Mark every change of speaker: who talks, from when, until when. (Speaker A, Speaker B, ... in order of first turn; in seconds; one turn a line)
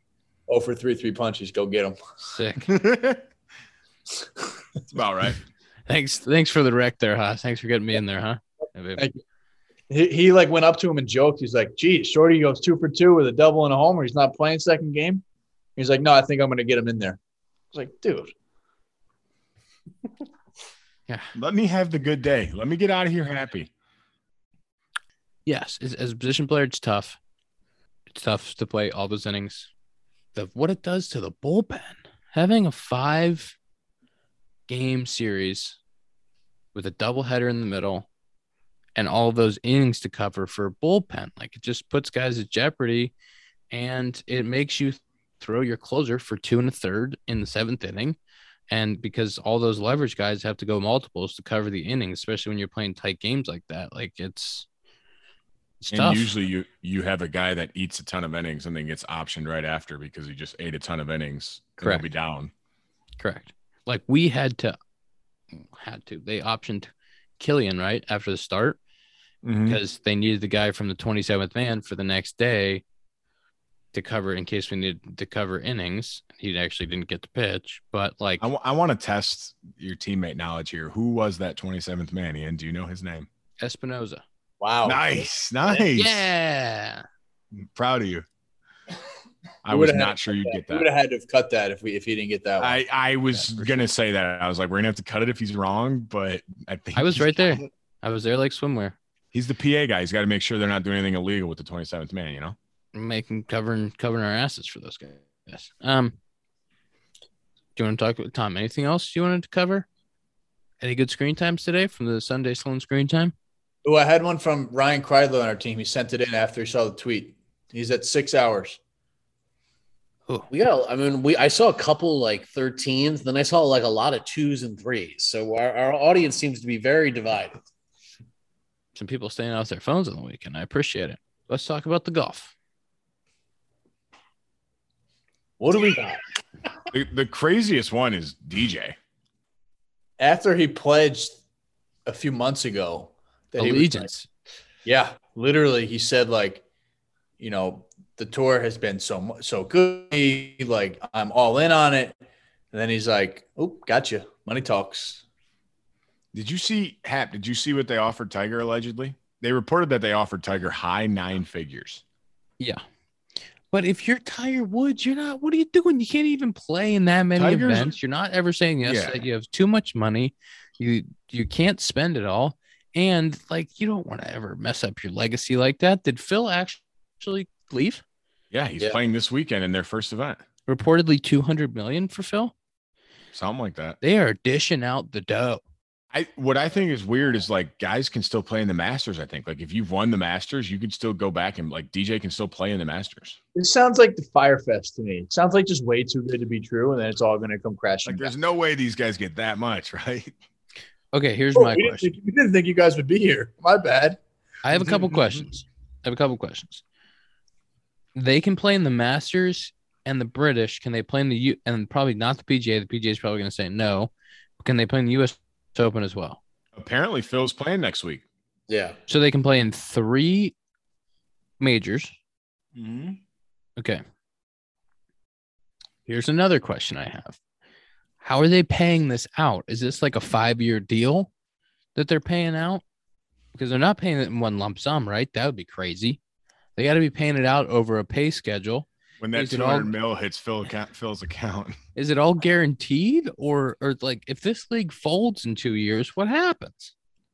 Speaker A: 0.5-2.0
Speaker B: 2.2-2.7
Speaker C: 2.7-3.2
Speaker C: 4.9-5.4
Speaker B: 5.9-9.0
Speaker A: 9.0-9.2
Speaker A: 9.9-15.2
Speaker A: 15.8-17.2
Speaker A: 17.7-18.3
Speaker C: 21.3-23.7
Speaker B: 25.4-27.2
Speaker B: 28.1-29.7
Speaker B: 30.3-33.5
Speaker B: 34.7-35.8
Speaker B: 36.7-38.1
Speaker B: 39.0-43.1
Speaker B: 43.7-48.1
Speaker B: 48.7-54.6
Speaker B: 55.8-56.3
Speaker C: 55.9-62.5
Speaker B: 63.2-64.8
Speaker B: 65.5-68.8
Speaker C: 69.4-69.8
Speaker B: 69.7-72.8
Speaker B: 73.9-78.5
Speaker C: 78.4-83.3
Speaker B: 83.6-84.2
Speaker A: 84.6-85.2
Speaker C: 84.8-86.3
Speaker B: 85.9-87.0
Speaker C: 87.5-88.2
Speaker C: 89.6-90.9
Speaker A: 89.7-92.8
Speaker C: 92.6-97.6
Speaker B: 93.3-93.8
Speaker B: 97.0-99.0
Speaker C: 99.3-102.5
Speaker B: 102.9-106.1
Speaker B: 107.8-109.8
Speaker B: 110.8-113.3
Speaker A: 113.8-118.8
Speaker D: 120.5-127.6
Speaker B: 128.9-132.5
Speaker A: 135.6-136.2
Speaker C: 136.9-138.9
Speaker A: 140.2-141.4
Speaker A: 142.1-144.1
Speaker B: 143.6-144.3
Speaker A: 144.8-146.6
Speaker A: 147.4-152.2
Speaker A: 152.7-155.2
Speaker C: 156.3-162.0
Speaker B: 163.7-178.0
Speaker C: 167.3-167.9
Speaker C: 168.8-169.2
Speaker C: 178.5-180.4
Speaker B: 180.7-182.5
Speaker C: 183.3-184.0
Speaker B: 184.0-185.6
Speaker C: 186.1-193.4
Speaker A: 193.5-198.3
Speaker C: 198.0-200.3
Speaker B: 201.1-202.1
Speaker A: 201.5-204.2
Speaker B: 204.6-206.8
Speaker C: 204.7-205.4
Speaker B: 208.1-216.4
Speaker C: 216.7-218.2
Speaker D: 218.7-219.0
Speaker B: 219.1-220.5
Speaker B: 221.6-222.1
Speaker D: 222.8-223.2
Speaker B: 226.1-227.4
Speaker B: 228.2-231.3
Speaker B: 231.9-232.8
Speaker B: 233.5-236.2
Speaker B: 236.8-239.9
Speaker C: 239.2-241.8
Speaker B: 241.9-246.9